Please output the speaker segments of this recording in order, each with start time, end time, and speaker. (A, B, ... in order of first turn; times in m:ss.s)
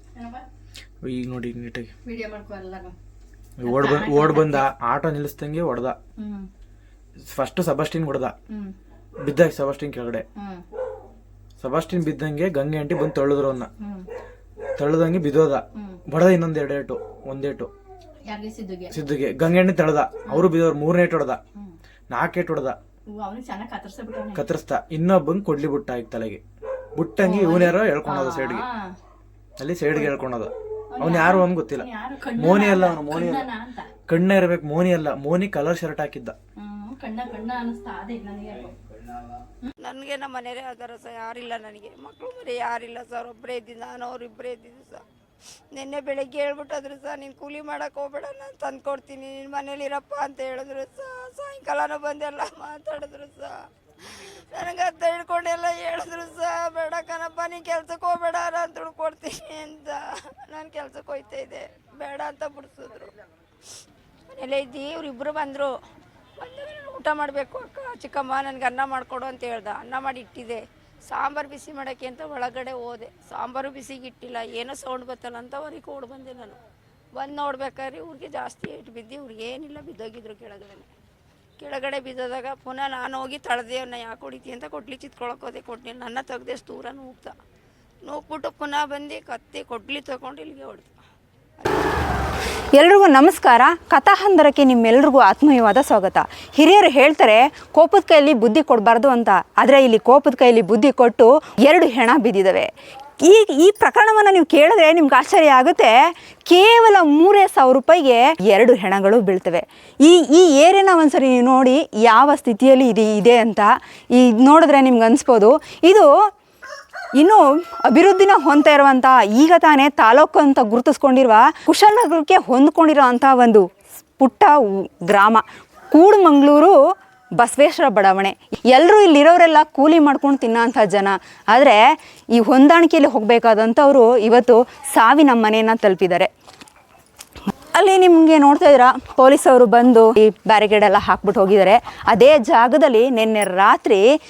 0:00.2-0:00.4 A
0:01.0-0:01.9 B
0:02.0-0:03.0 A
0:03.6-0:06.0 B
0:03.6-0:04.6 A
0:06.2-0:06.5 A
0:07.3-0:08.3 B
0:09.2-0:10.2 B
0:10.4-0:10.6 A
0:11.6-0:13.7 B
0:14.8-0:17.7 B
0:18.3-0:19.0 A
0:18.9-0:21.4 B
0:20.2-0:20.5 A
0:22.1-0:22.8 B
0:23.1-0:24.4 A
0:24.3-0:26.4 B
0:27.0-0:28.7 B
0:27.2-0:28.8 A
0:29.6-0:33.5 B
0:30.9-0:33.9 A
0:34.1-0:36.4 B
0:36.6-0:38.8 A
0:39.8-0:45.0 C
0:45.7-1:03.1 C
1:04.3-1:05.7 C
1:06.4-1:16.6 C
1:17.1-1:20.9 C
1:21.6-1:27.4 C
1:28.0-1:30.9 C
1:32.7-1:56.1 D
1:57.2-2:06.8 D
2:07.4-2:16.3 D
2:17.7-2:24.0 D